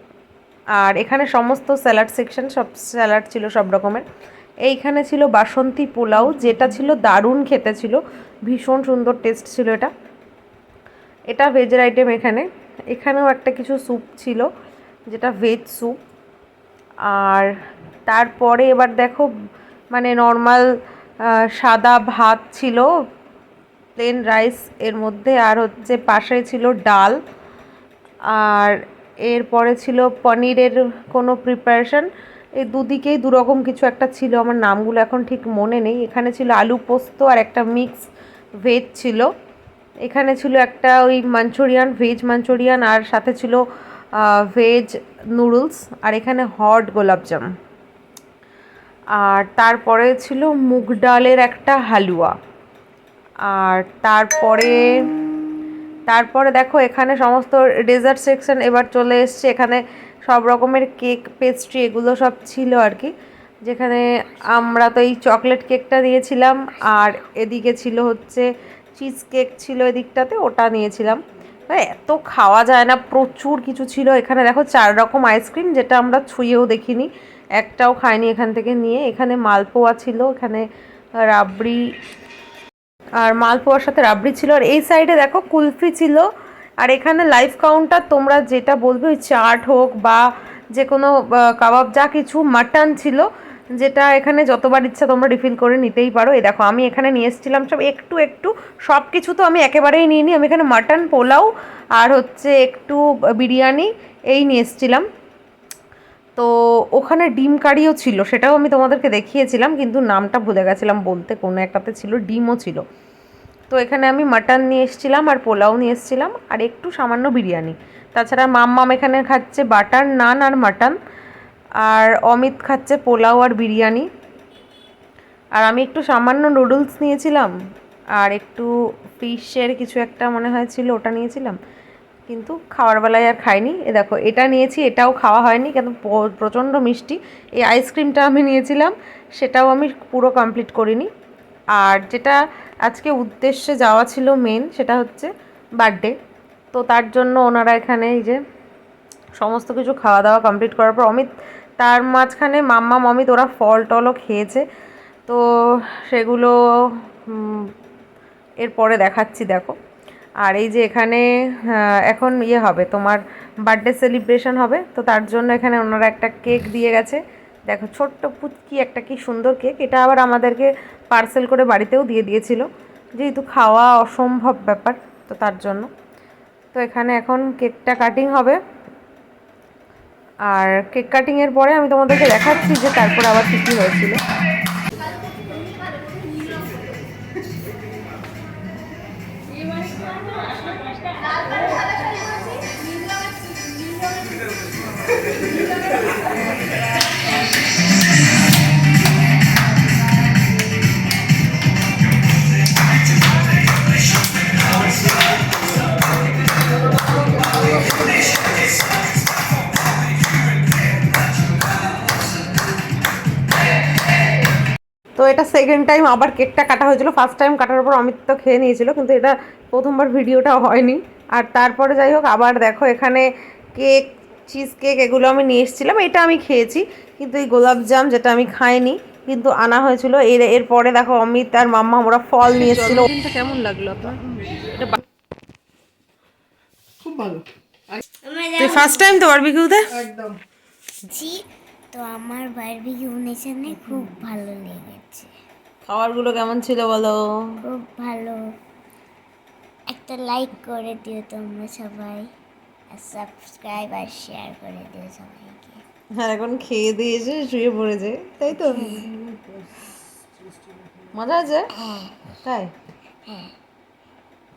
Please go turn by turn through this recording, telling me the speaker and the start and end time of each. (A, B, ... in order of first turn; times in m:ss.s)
0:00.8-0:04.0 A
0:04.7-0:09.9 A
0:11.3-0:14.5 A
0:15.1-0:16.0 A
0:17.1-0:17.5 A
0:18.1-0:19.3 A
0:19.9-0:20.7 A
0:21.6-0:22.9 A
0:24.0-0:27.2 A
0:28.3-0:28.8 A
0:29.3-0:32.1 A
0:32.6-0:38.1 A
0:38.6-0:39.3 A
0:40.0-0:43.6 A
0:44.1-0:47.4 A
0:49.1-0:52.3 A
0:53.5-0:55.1 A
0:56.1-1:03.1 A
1:03.6-1:20.6 A
1:21.2-1:21.8 A
1:23.2-1:26.3 A
1:26.8-1:30.2 A
1:30.8-1:45.0 A
1:46.4-1:52.8 A
1:53.7-2:01.0 A
2:01.8-2:04.1 A
2:05.6-2:07.5 A
2:08.2-2:11.6 A
2:12.3-2:21.1 A
2:21.8-2:26.1 A
2:26.7-2:28.4 A
2:29.4-2:34.6 A
2:35.3-2:36.5 A
2:37.3-2:37.7 A
2:38.6-2:39.8 A
2:40.4-2:52.6 A
2:53.2-2:55.9 A
2:56.7-2:58.6 A
3:00.5-3:04.2 A
3:35.2-3:54.2 A
3:57.0-3:57.4 B
3:58.2-3:59.2 C
3:58.6-3:59.9 A
4:00.0-4:00.4 B
4:01.1-4:05.3 C
4:05.8-4:07.2 A
4:07.6-4:08.4 C
4:09.9-4:12.3 C
4:12.9-4:15.8 C
4:16.2-4:19.1 A
4:18.8-4:19.8 B
4:20.4-4:20.9 B
4:21.1-4:21.7 A
4:21.8-4:22.0 C
4:22.4-4:22.7 A
4:23.3-4:23.5 C